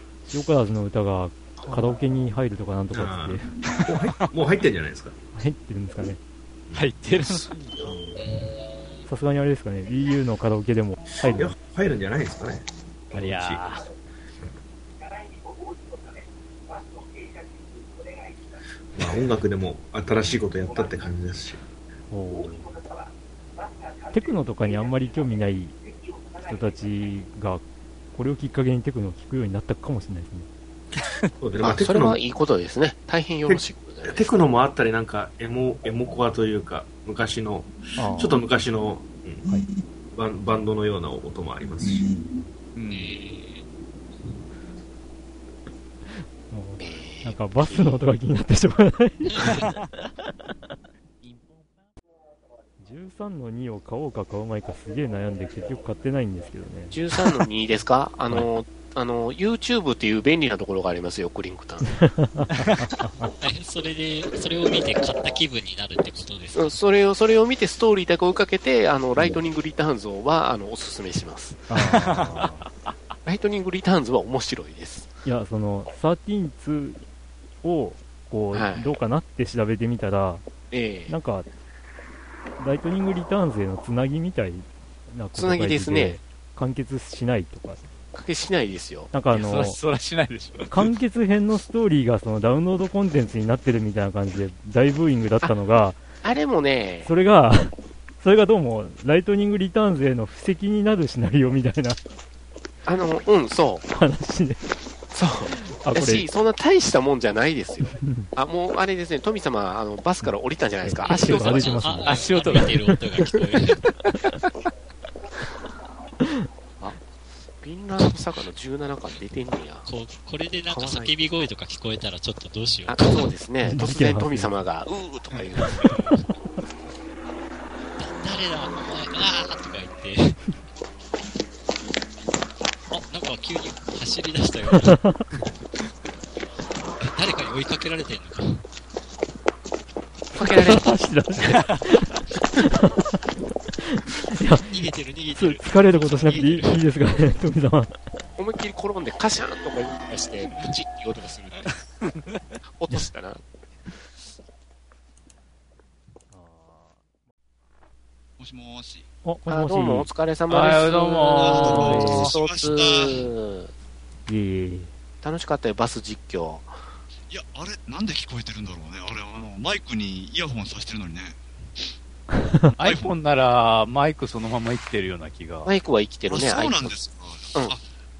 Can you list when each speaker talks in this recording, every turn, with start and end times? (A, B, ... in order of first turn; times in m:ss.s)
0:00.3-0:03.5 A
0:01.6-0:02.0 B
0:02.9-0:05.2 B
0:05.3-0:06.2 A
0:06.7-0:08.2 B
0:06.7-0:07.5 C
0:08.2-0:09.0 D
0:09.1-0:11.5 A
0:11.1-0:13.8 B
0:13.1-0:13.8 C
0:18.9-0:21.6 B
0:22.1-0:22.8 A
0:24.1-0:25.8 A
0:26.4-0:30.5 A
0:31.4-0:32.2 B
0:31.6-0:34.4 E
0:33.5-0:39.5 B
0:38.0-0:38.4 A
0:40.1-0:42.1 B
0:42.0-0:42.4 A
0:42.7-0:43.2 C
0:42.9-0:43.6 D
0:46.2-0:49.6 A
0:46.8-0:48.0 E
0:52.8-0:57.0 A
0:56.9-1:01.9 E
1:02.0-1:03.3 A
1:03.4-1:06.8 D
1:06.5-1:11.6 E
1:11.7-1:12.6 A
1:11.8-1:12.6 C
1:13.2-1:15.1 E
1:15.2-1:17.0 A
1:17.6-1:20.4 A
1:18.5-1:19.0 E
1:20.7-1:21.2 E
1:21.1-1:21.5 A
1:22.6-1:27.9 A
1:25.3-1:26.2 E
1:28.1-1:29.1 E
1:29.1-1:29.8 A
1:29.3-1:30.9 C
1:30.7-1:36.0 A
1:36.2-1:37.1 E
1:37.0-1:42.0 A
1:42.8-1:43.9 E
1:43.9-1:44.7 A
1:45.1-1:52.2 E
1:45.6-1:46.3 A
1:48.0-1:48.3 A
1:50.8-1:53.4 A
1:51.0-1:53.9 D
1:52.0-1:52.7 C
1:57.6-1:59.9 E
1:59.9-2:03.3 D
2:00.7-2:01.3 E
2:02.9-2:05.8 E
2:03.6-2:04.6 A
2:05.8-2:06.1 D
2:08.0-2:10.4 D
2:12.9-2:15.0 D
2:14.9-2:15.2 A
2:17.0-2:18.6 D
2:20.3-2:20.8 E
2:20.4-2:23.0 A
2:23.8-2:24.7 A
2:24.6-2:26.8 D
2:25.4-2:27.9 A
2:28.4-2:31.8 E
2:32.7-2:33.4 E
2:36.3-2:37.0 A
2:38.4-2:39.1 F
2:39.2-2:40.1 A
2:39.4-2:43.7 E
2:40.5-2:42.3 C
2:40.7-2:43.3 F
2:41.6-2:42.3 A
2:44.3-2:44.9 A
2:45.2-2:46.8 E
2:47.3-2:51.4 F
2:52.4-2:52.7 A
2:52.8-2:55.7 C
2:52.8-2:53.2 F
2:55.6-2:57.0 E
2:56.3-2:57.8 F